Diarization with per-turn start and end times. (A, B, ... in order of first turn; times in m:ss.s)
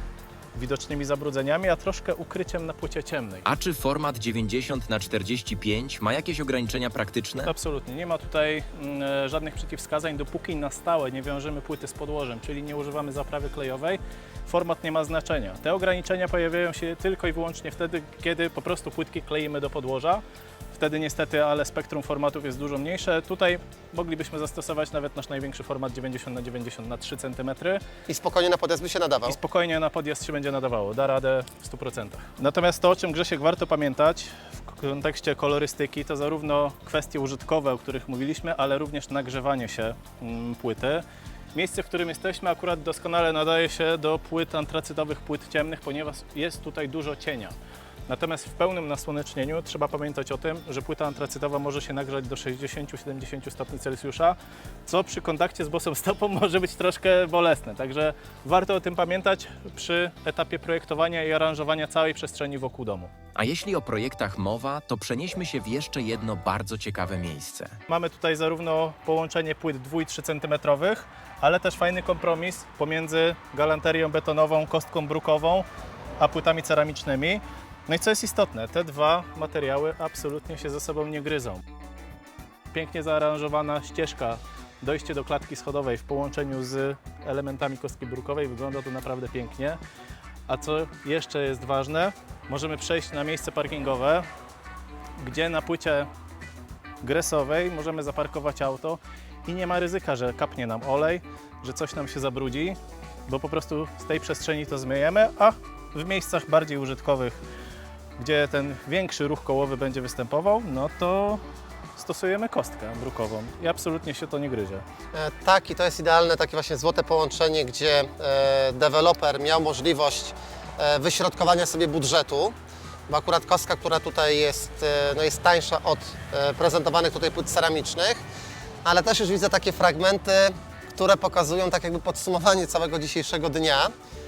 0:00.5-0:03.4 A
0:03.4-0:07.5 B
0:07.4-0:27.8 A
0:28.1-0:29.4 C
0:29.2-0:47.5 A
0:48.1-1:03.1 A
1:03.3-1:07.8 B
1:07.9-1:15.6 A
1:16.2-1:21.6 A
1:22.7-1:29.8 A
1:30.5-1:34.2 A
1:35.2-1:36.1 A
1:37.0-1:42.8 A
1:43.3-1:47.4 A
1:48.2-1:51.4 A
1:52.0-1:54.8 A
1:55.1-2:02.5 C
2:03.1-2:08.2 C
2:08.8-2:13.9 C